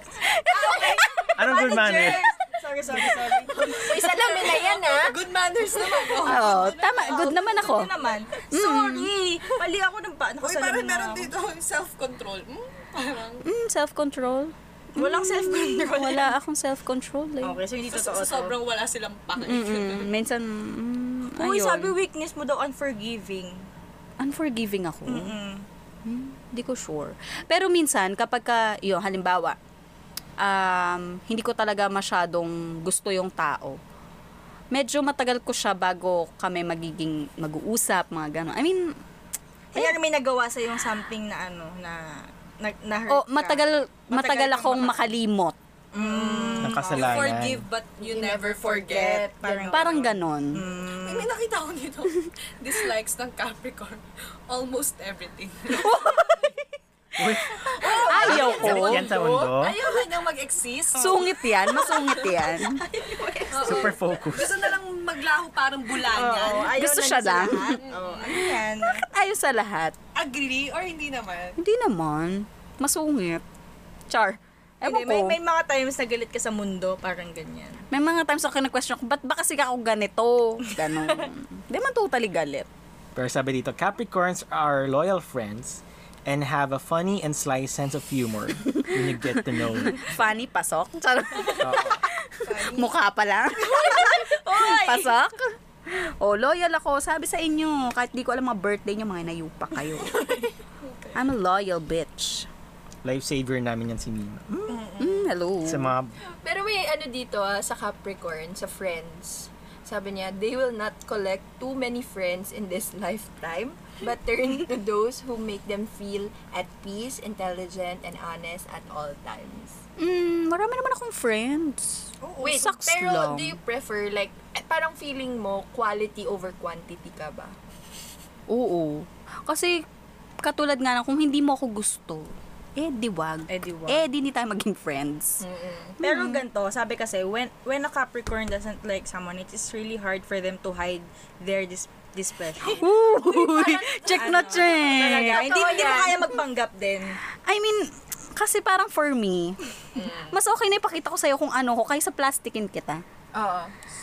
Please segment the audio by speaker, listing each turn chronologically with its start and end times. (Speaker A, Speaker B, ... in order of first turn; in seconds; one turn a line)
Speaker A: 0.2-1.6
Speaker B: 0.6-1.4
Speaker C: 1.4-2.2
Speaker D: 1.4-7.6
Speaker E: 1.5-3.8
Speaker B: 3.8-5.2
Speaker B: 6.0-6.5
Speaker A: 6.2-7.9
Speaker E: 6.3-11.3
Speaker A: 8.5-9.1
Speaker D: 10.4-13.4
Speaker A: 13.4-17.6
Speaker E: 14.9-16.3
Speaker E: 17.4-18.6
Speaker D: 17.9-20.1
Speaker A: 19.4-21.9
Speaker E: 21.3-23.7
Speaker A: 24.2-25.4
Speaker E: 25.1-25.6
Speaker A: 26.0-29.6
Speaker A: 30.4-33.8
Speaker A: 34.7-38.9
Speaker E: 39.7-45.0
Speaker A: 43.1-45.5
Speaker E: 45.9-47.2
Speaker D: 45.9-50.1
Speaker C: 46.6-47.6
Speaker B: 48.0-49.7
Speaker E: 49.4-51.3
Speaker A: 49.7-50.6
Speaker D: 50.9-56.3
Speaker A: 55.7-56.5
Speaker C: 57.2-59.8
Speaker D: 57.7-66.8
Speaker A: 57.7-59.1
Speaker E: 58.0-59.5
Speaker E: 60.9-61.2
Speaker A: 60.9-62.8
Speaker B: 63.6-63.9
Speaker C: 63.6-64.6
Speaker E: 66.0-69.1
Speaker A: 66.7-67.8
Speaker D: 67.4-68.9
Speaker A: 68.9-69.9
Speaker D: 70.1-71.6
Speaker A: 71.6-73.4
Speaker A: 74.1-75.4
Speaker E: 74.8-77.8
Speaker A: 77.9-82.7
Speaker C: 83.1-90.1
Speaker A: 88.8-100.3
Speaker C: 91.6-92.0
Speaker D: 92.4-92.9
Speaker D: 93.7-94.2
Speaker E: 94.5-95.1
Speaker D: 100.8-101.2
Speaker A: 101.1-102.5
Speaker C: 103.0-104.9
Speaker D: 104.7-105.0
Speaker A: 105.0-105.9
Speaker C: 105.6-106.1
Speaker B: 106.4-119.8
Speaker A: 120.0-123.6
Speaker B: 122.4-127.5
Speaker A: 128.5-129.8
Speaker A: 130.4-135.4
Speaker E: 133.5-134.0
Speaker B: 135.4-135.9
Speaker A: 136.0-136.4
Speaker E: 136.0-142.9
Speaker B: 142.7-146.3
Speaker A: 142.7-145.7
Speaker E: 144.1-147.2
Speaker A: 147.4-149.6
Speaker B: 149.9-150.4
Speaker A: 150.2-153.0
Speaker B: 153.3-153.7